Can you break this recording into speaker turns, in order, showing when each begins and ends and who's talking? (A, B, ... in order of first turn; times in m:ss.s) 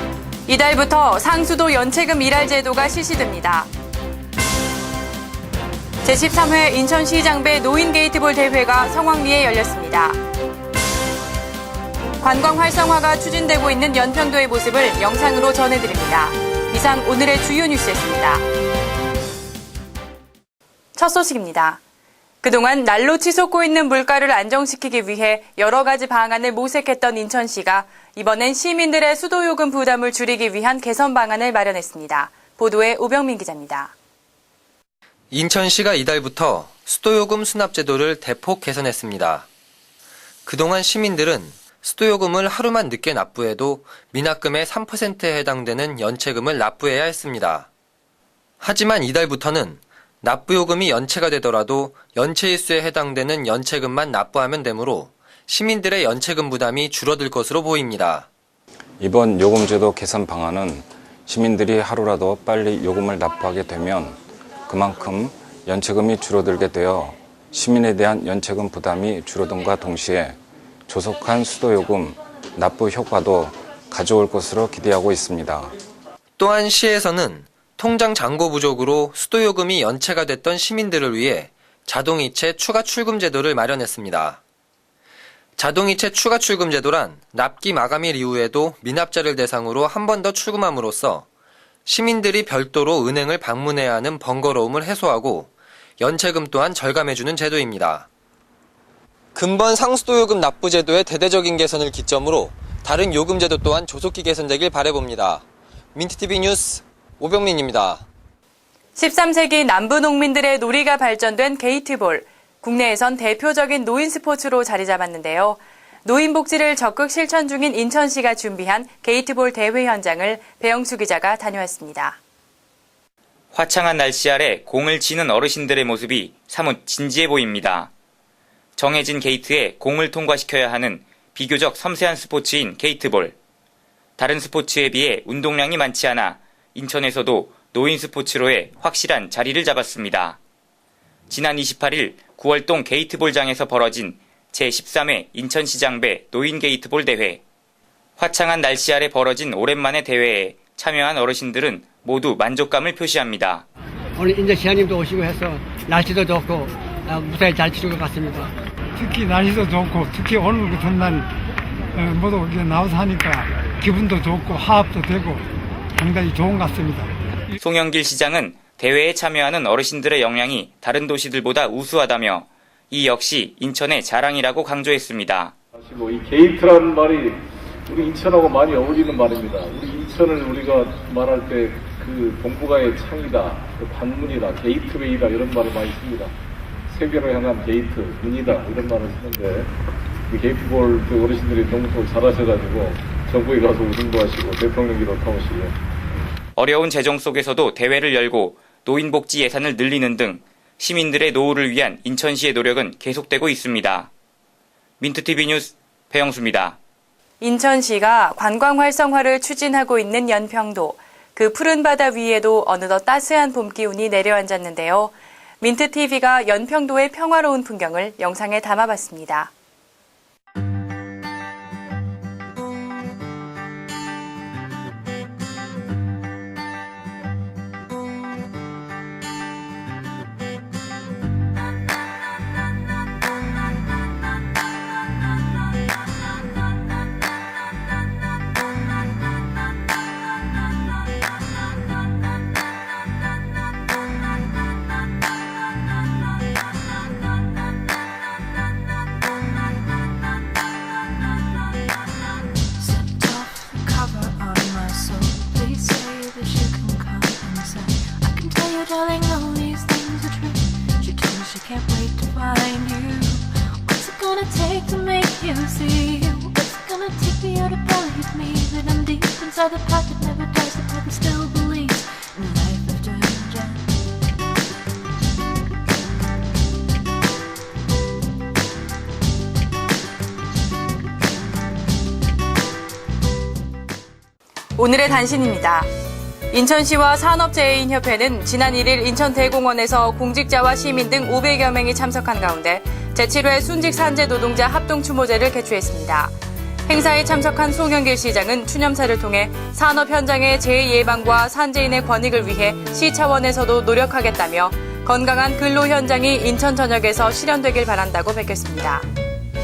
0:00.5-0:03.7 A
0:06.0-0:10.2 A
0:12.2-0:18.4 A
0:21.0-0:21.8 A
0:22.4-0:33.9 A
0:35.3-0:39.5 B
0:40.5-0:47.7 B
0:48.6-0:58.3 B
0:59.0-1:04.2 C
1:04.7-1:10.4 C
1:10.9-1:15.7 C
1:16.4-1:24.4 B
1:25.6-1:31.3 B
1:31.9-1:38.1 B
1:39.3-1:48.0 B
1:49.0-2:02.2 A
2:03.5-2:07.9 D
2:08.8-2:13.4 D
2:14.2-2:20.4 D
2:21.3-2:27.4 D
2:28.2-2:33.6 D
2:34.2-2:38.5 E
2:39.0-2:41.3 F
2:42.0-2:45.4 F
2:46.0-2:47.1 F
2:47.6-2:55.5 D
2:55.8-3:06.3 G
3:06.9-3:09.7 G
3:10.3-3:15.8 G
3:16.6-3:24.1 D
3:25.0-3:26.8 D
3:27.4-3:39.5 A
4:12.8-4:33.9 H
4:44.8-4:45.9 A
4:46.5-4:56.4 A
4:56.9-5:09.1 A